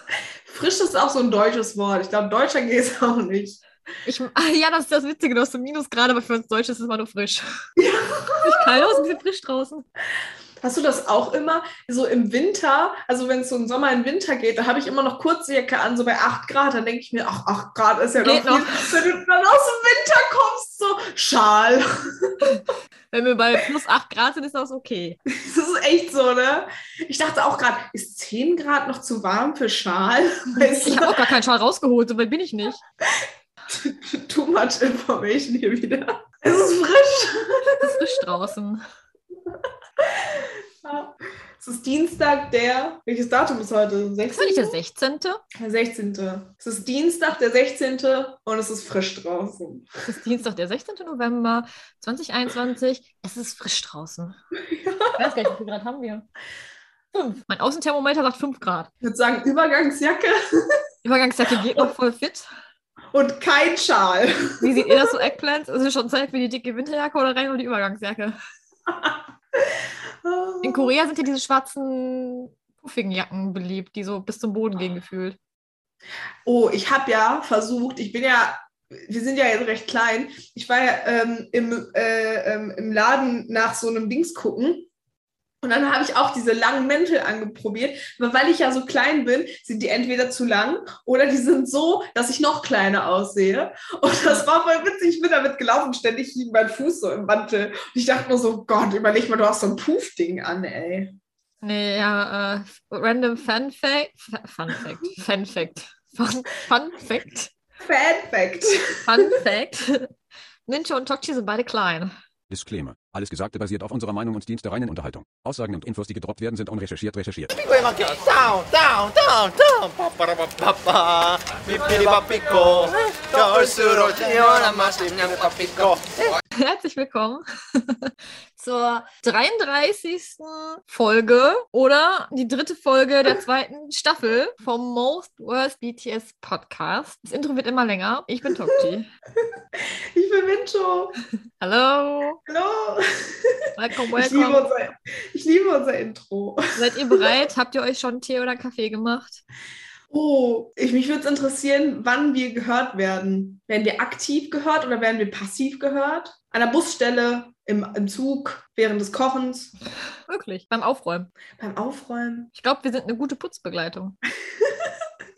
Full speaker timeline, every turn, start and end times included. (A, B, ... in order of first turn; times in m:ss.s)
0:00.5-0:03.6 A
0:04.0-0:07.4 B
0:07.8-0:09.0 A
0:08.4-0:09.8 B
0:10.6-0:22.5 A
0:18.2-0:19.0 B
0:22.5-0:25.2 B
0:25.3-0:31.2 A
0:30.6-0:32.8 B
0:33.0-0:38.1 A
0:37.8-0:38.8 B
0:39.5-0:44.8 A
0:44.3-0:45.4 B
0:45.6-0:49.9 A
0:50.0-0:54.4 B
0:54.6-0:55.4 A
0:55.2-0:56.2 B
0:57.1-0:58.9 B
0:59.0-1:00.4 A
1:01.0-1:02.4 B
1:03.1-1:05.1 A
1:04.6-1:08.3 B
1:08.9-1:10.9 A
1:10.6-1:15.4 B
1:16.4-1:24.9 A
1:25.6-1:41.2 A
1:41.6-1:47.5 B
1:47.8-1:49.4 A
1:49.0-1:50.1 B
1:50.7-1:52.1 B
1:52.5-1:57.5 C
1:57.5-2:06.3 D
2:06.6-2:19.1 B
2:19.4-2:21.1 A
2:21.6-2:22.4 B
2:22.5-2:27.2 A
2:23.8-2:24.7 B
2:26.8-2:29.4 B
2:30.1-2:39.7 A
2:40.3-2:41.3 B
2:41.6-2:42.5 A
2:42.5-2:44.2 B
2:44.6-2:44.9 A